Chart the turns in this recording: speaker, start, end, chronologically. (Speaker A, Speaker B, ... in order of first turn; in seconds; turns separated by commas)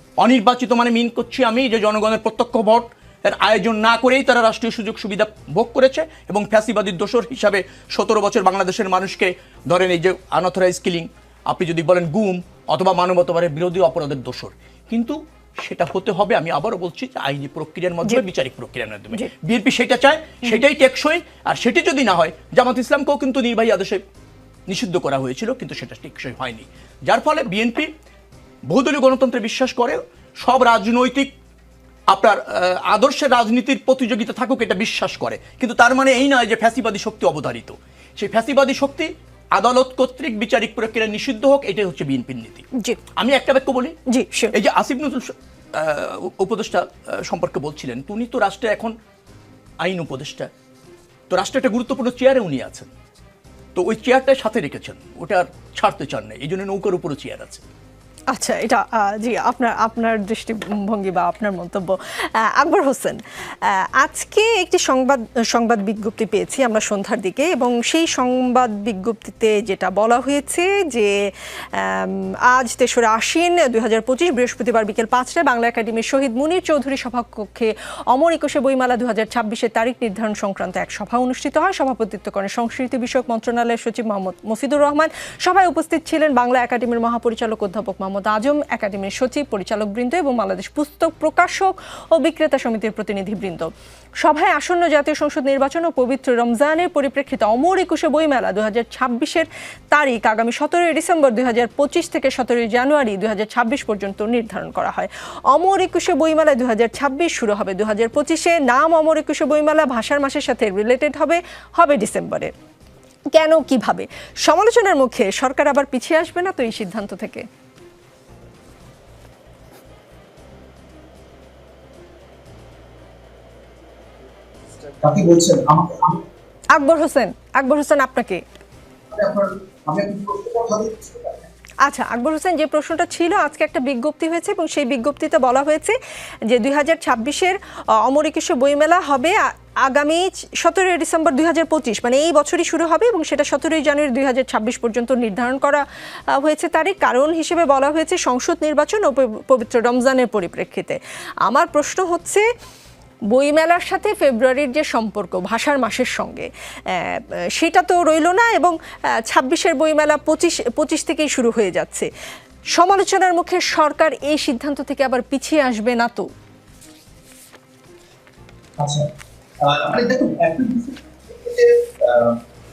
Speaker A: 0.2-24.0, Speaker A: 24.7-27.9, Speaker A: 28.7-31.3, Speaker A: 32.1-44.0, Speaker B: 44.1-44.5, Speaker A: 44.5-48.9, Speaker A: 49.8-50.5, Speaker A: 51.3-52.9, Speaker A: 53.7-57.6, Speaker B: 58.3-71.2, Speaker B: 71.7-93.7, Speaker B: 94.2-112.5, Speaker B: 113.3-117.4, Speaker C: 125.0-126.2, Speaker B: 126.7-128.4, Speaker C: 129.1-131.5, Speaker B: 131.8-135.9, Speaker B: 136.5-152.4, Speaker B: 153.3-162.1, Speaker B: 162.7-166.3, Speaker C: 168.8-169.1, Speaker C: 169.6-172.4